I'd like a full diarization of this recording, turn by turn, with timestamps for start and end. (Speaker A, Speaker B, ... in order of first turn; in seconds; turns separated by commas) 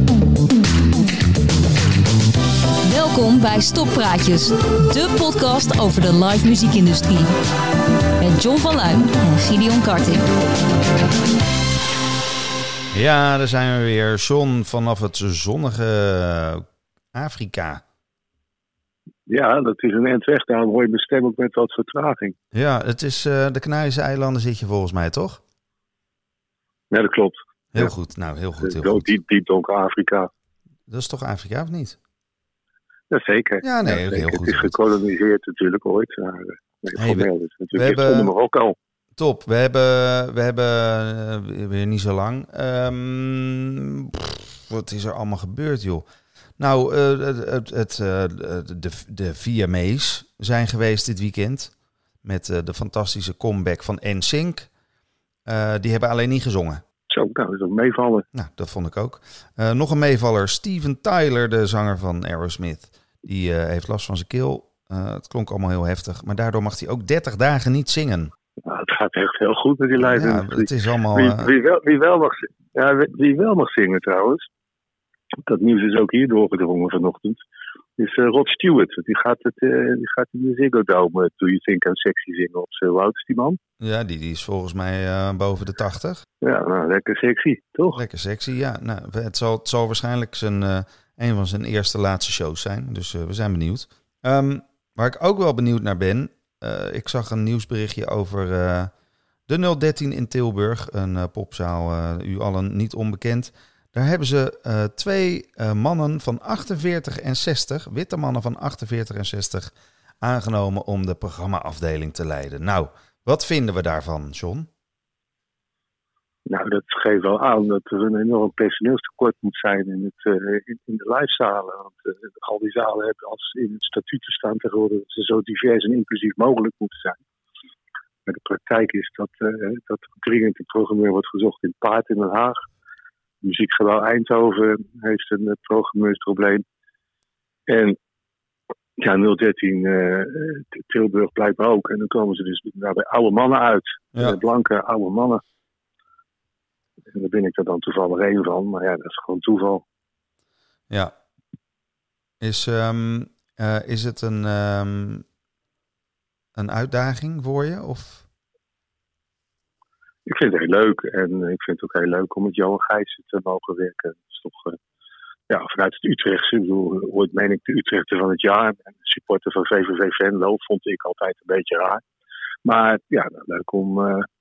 Speaker A: 2.9-7.4, Speaker A: 8.2-10.2, Speaker B: 12.9-17.8, Speaker C: 19.3-22.3, Speaker B: 22.5-25.4, Speaker C: 26.9-27.9, Speaker B: 27.7-29.1, Speaker C: 28.6-30.3, Speaker B: 30.9-32.0, Speaker C: 33.1-38.7, Speaker B: 33.6-34.8, Speaker B: 37.0-38.3, Speaker B: 39.2-46.0, Speaker B: 46.6-51.7, Speaker B: 52.2-54.7, Speaker B: 55.5-56.8, Speaker C: 57.1-58.2, Speaker B: 58.3-68.3, Speaker C: 68.6-74.4, Speaker B: 70.0-71.5, Speaker C: 75.5-77.4, Speaker C: 78.0-83.6, Speaker B: 83.8-86.2, Speaker C: 86.4-88.0, Speaker B: 87.9-98.9, Speaker B: 99.5-114.7, Speaker C: 116.5-127.2, Speaker C: 128.3-132.6, Speaker C: 133.4-136.6, Speaker C: 137.7-138.0, Speaker C: 139.0-145.4, Speaker C: 147.1-149.8, Speaker B: 152.4-155.2, Speaker B: 156.6-158.2, Speaker C: 160.2-164.8, Speaker C: 165.5-172.0, Speaker C: 172.7-174.2